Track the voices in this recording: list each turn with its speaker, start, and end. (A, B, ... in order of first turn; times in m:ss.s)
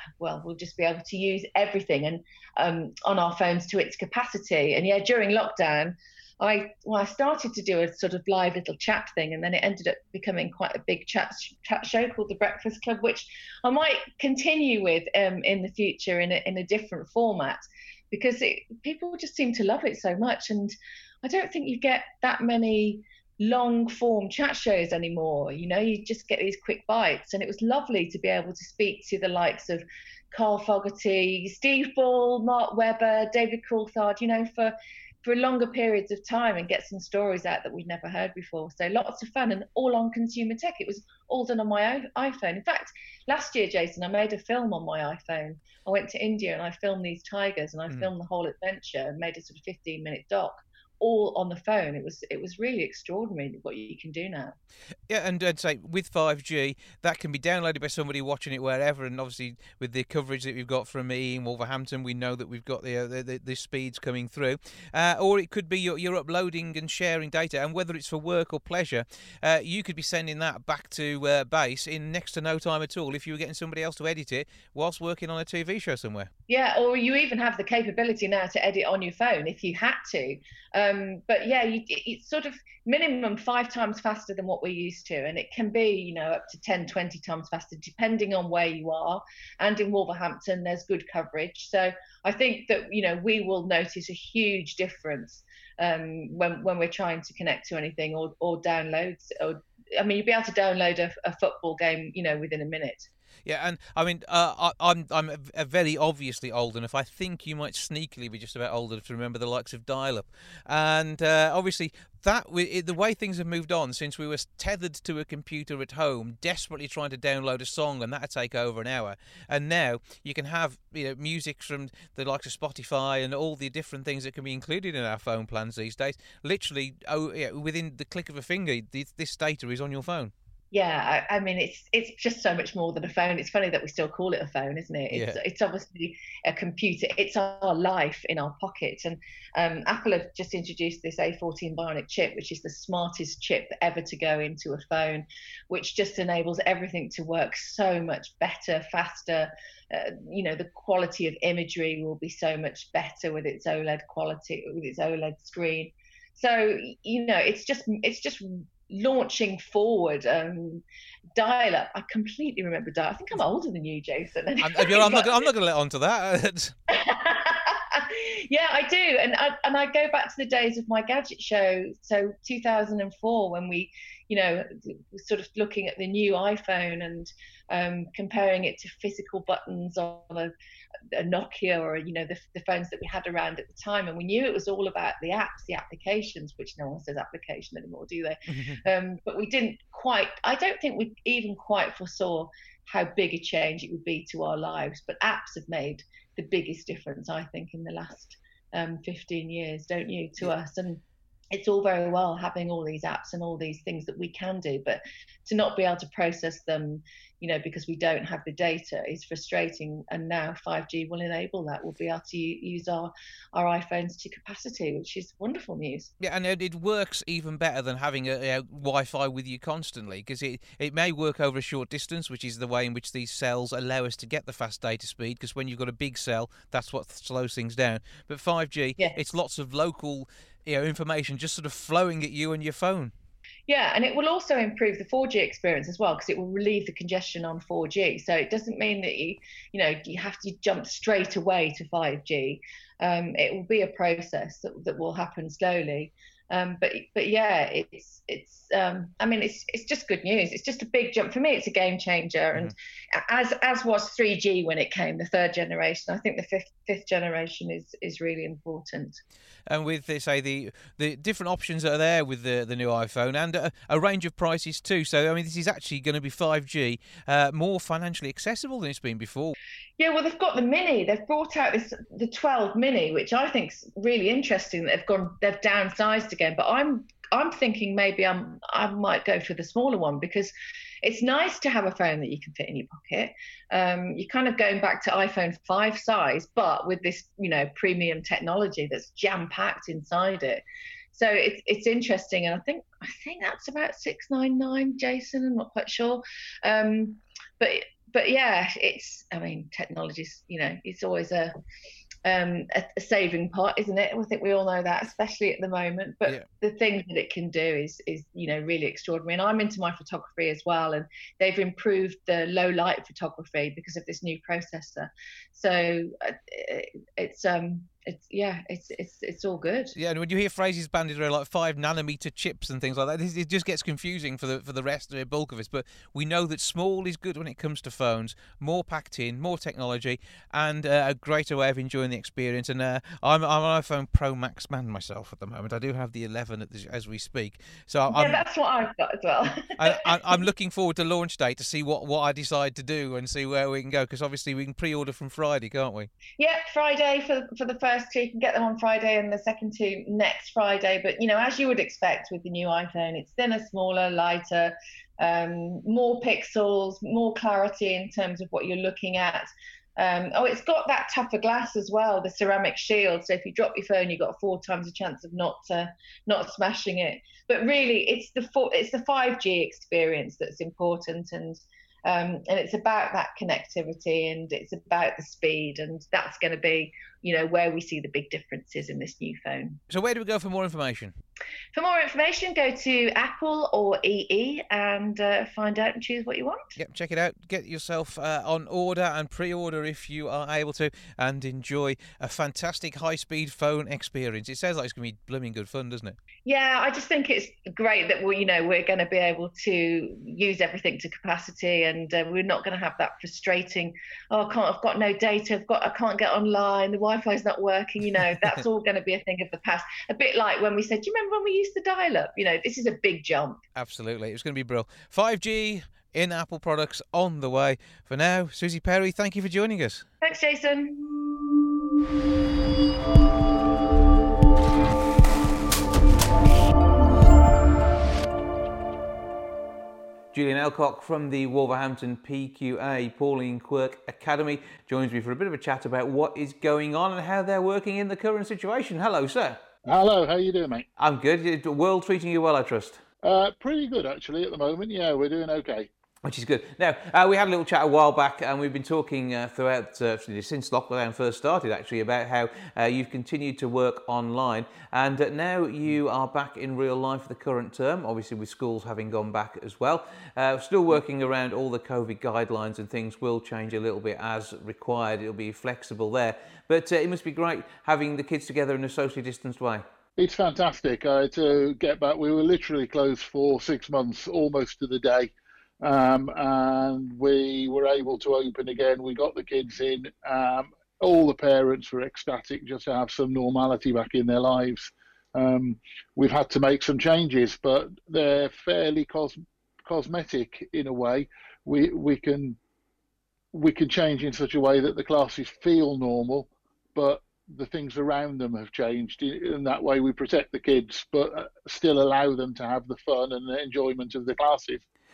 0:00.2-0:54.6 A
0:55.1-1:16.3 B
1:16.5-1:43.1 A
1:43.4-2:10.3 B
2:10.7-2:40.8 A
2:15.1-2:15.4 B
2:41.4-2:45.4 A
2:44.6-2:46.8 B
2:46.9-3:00.5 A
3:01.1-3:21.0 A
3:08.5-3:08.8 B
3:21.5-3:36.1 A
3:36.2-3:53.1 B
3:53.7-4:19.2 A
4:19.7-4:29.6 B
4:30.0-5:01.5 A
5:02.2-5:20.0 A
5:20.0-5:38.4 B
5:38.1-5:40.1 A
5:39.8-5:46.1 B
5:46.4-6:19.8 A
6:19.9-6:21.2 B
6:21.7-6:26.7 A
6:26.8-6:36.2 B
6:36.4-6:53.6 A
6:53.8-7:00.1 B
7:00.2-7:01.0 A
7:10.3-7:19.6 B
7:19.9-7:20.9 C
7:21.0-7:23.0 B
7:23.2-7:25.9 C
7:26.2-7:49.8 B
7:50.2-8:12.6 C
8:13.5-8:24.8 C